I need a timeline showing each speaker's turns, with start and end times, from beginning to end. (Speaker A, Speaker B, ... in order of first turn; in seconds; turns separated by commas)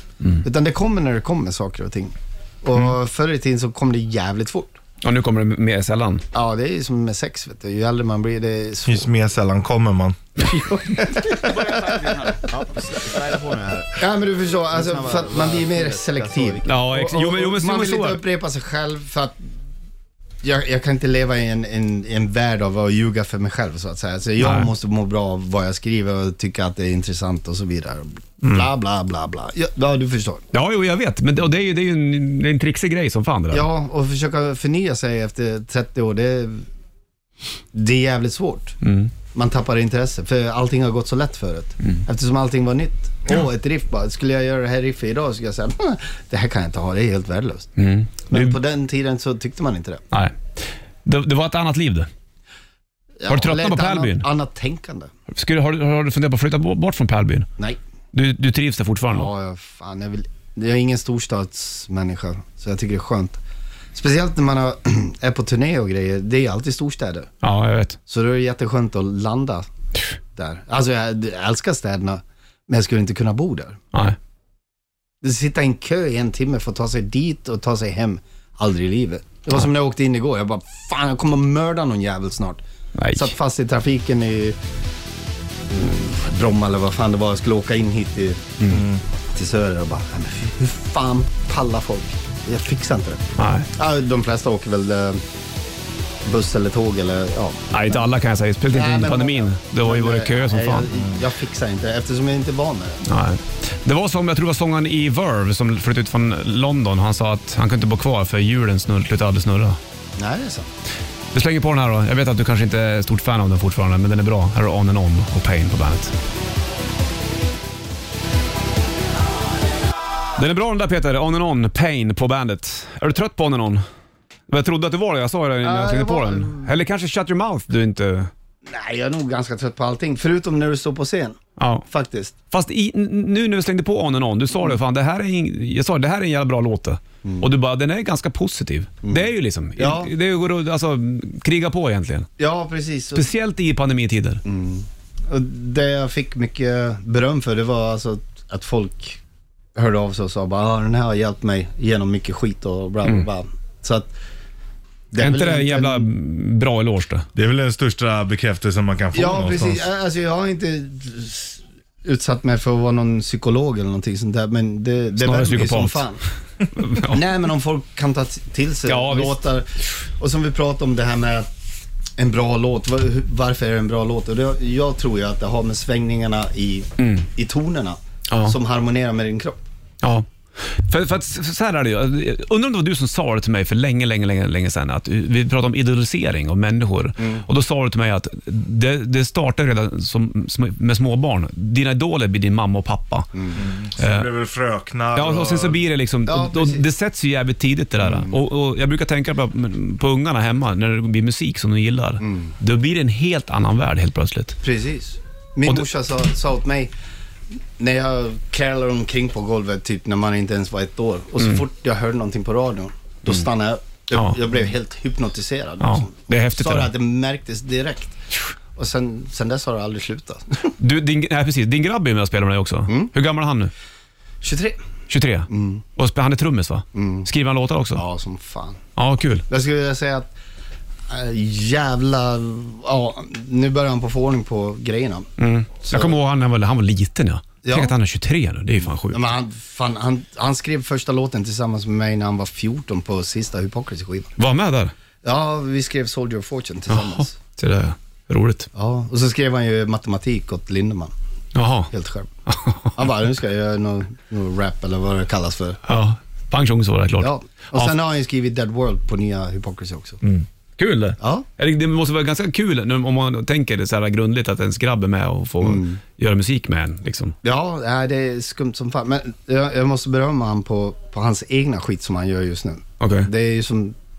Speaker A: 0.4-4.8, Speaker B: 5.0-6.2, Speaker A: 6.3-9.1, Speaker C: 8.8-10.2, Speaker B: 10.4-13.3, Speaker A: 10.5-19.4, Speaker B: 16.6-18.2, Speaker A: 20.4-30.4, Speaker B: 24.4-24.7, Speaker B: 28.4-28.7, Speaker B: 30.5-33.6, Speaker A: 33.5-36.6, Speaker A: 37.7-38.7, Speaker B: 38.8-39.1, Speaker A: 39.3-47.7, Speaker B: 47.8-48.6, Speaker A: 48.3-50.0, Speaker B: 50.1-52.1, Speaker A: 53.2-55.1, Speaker B: 53.3-54.2, Speaker B: 55.3-57.5, Speaker B: 58.1-59.3, Speaker A: 59.1-63.4, Speaker A: 63.9-67.3, Speaker B: 67.4-68.0, Speaker A: 68.1-69.7, Speaker A: 70.3-73.8, Speaker A: 75.2-82.6, Speaker B: 82.9-83.3, Speaker A: 83.1-84.6, Speaker A: 85.7-88.5, Speaker C: 88.7-89.0, Speaker A: 89.3-95.2, Speaker B: 93.4-93.7, Speaker A: 96.2-98.0, Speaker B: 97.7-100.9, Speaker A: 98.7-103.0, Speaker B: 103.0-109.8, Speaker A: 110.2-110.7, Speaker B: 111.3-116.1, Speaker B: 120.4-123.8, Speaker B: 124.5-128.3, Speaker A: 125.6-126.7, Speaker A: 128.7-132.3, Speaker B: 131.6-131.8, Speaker B: 132.5-142.3, Speaker A: 137.2-137.5, Speaker A: 139.0-140.1, Speaker A: 142.4-143.3, Speaker B: 143.1-144.4, Speaker A: 144.4-149.2, Speaker A: 149.7-154.1, Speaker A: 155.1-156.1, Speaker B: 155.2-157.3, Speaker C: 157.3-159.8, Speaker A: 159.1-166.2, Speaker B: 165.2-166.0, Speaker B: 166.8-167.2, Speaker A: 167.1-171.5, Speaker B: 168.9-169.4, Speaker A: 172.2-179.6, Speaker B: 177.0-177.3, Speaker B: 178.3-178.6, Speaker B: 180.0-193.3, Speaker A: 187.2-187.5, Speaker A: 193.3-193.6, Speaker C: 193.6-195.8, Speaker B: 194.0-194.3, Speaker B: 195.1-204.6, Speaker A: 196.2-196.8, Speaker A: 198.0-198.4, Speaker A: 202.2-202.5, Speaker A: 204.6-206.9, Speaker A: 207.8-218.2, Speaker B: 215.8-216.9, Speaker A: 218.7-220.7, Speaker B: 220.8-223.7, Speaker A: 222.9-223.1, Speaker A: 224.4-224.8, Speaker B: 225.1-228.0, Speaker A: 225.5-225.8, Speaker A: 226.9-227.3, Speaker A: 227.9-228.8, Speaker B: 228.9-229.4, Speaker A: 229.5-230.3, Speaker A: 231.1-235.3, Speaker B: 235.4-239.2, Speaker A: 235.8-236.2, Speaker A: 237.6-237.9, Speaker A: 239.1-244.3, Speaker B: 244.4-244.9, Speaker A: 245.2-247.4, Speaker B: 246.9-248.7, Speaker A: 248.7-251.1, Speaker B: 251.5-251.9, Speaker A: 251.9-252.3, Speaker B: 252.5-252.9, Speaker A: 252.9-255.8, Speaker B: 255.8-257.9, Speaker A: 257.2-260.2, Speaker B: 260.8-267.4, Speaker A: 261.2-261.4, Speaker A: 265.6-266.0, Speaker A: 267.4-273.9, Speaker B: 273.0-273.3